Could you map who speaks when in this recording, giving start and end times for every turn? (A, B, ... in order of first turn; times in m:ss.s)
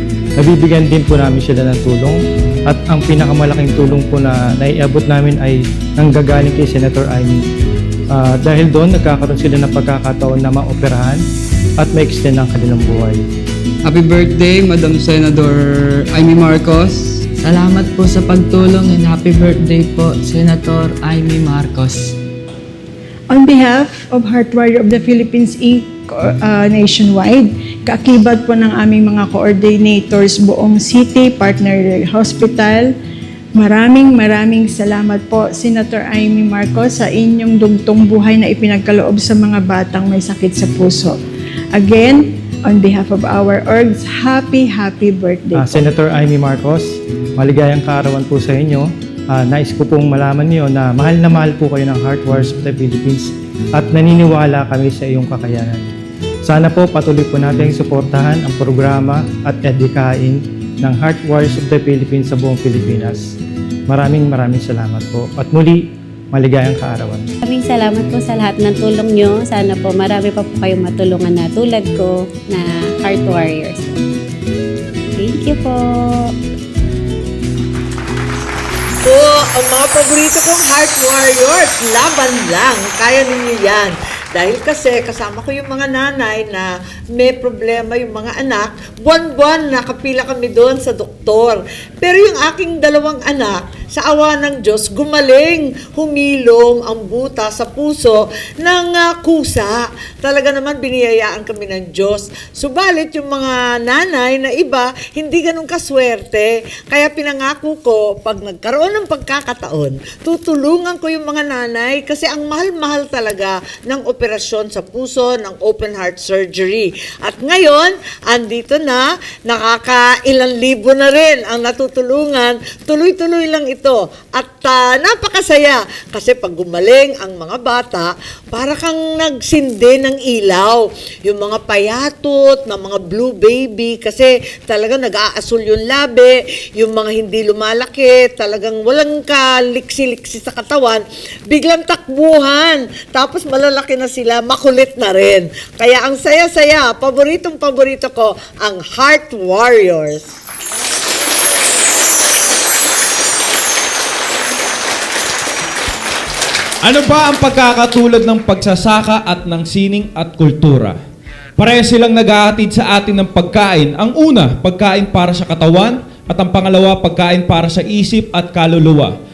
0:00.4-0:07.4 A
0:08.1-0:11.2 A
0:11.8-0:13.2 A
0:13.8-0:17.2 B
0:17.4-0:22.1 C
0:23.3-0:32.9 D
0:33.6-0:41.2 D
0:41.7-0:45.8 D
0:45.5-1:03.4 A
1:03.9-1:07.3 A
1:07.4-1:14.0 E
1:15.2-1:16.3 E
1:19.0-2:30.3 F
2:36.8-2:41.0 G
2:41.6-2:49.1 G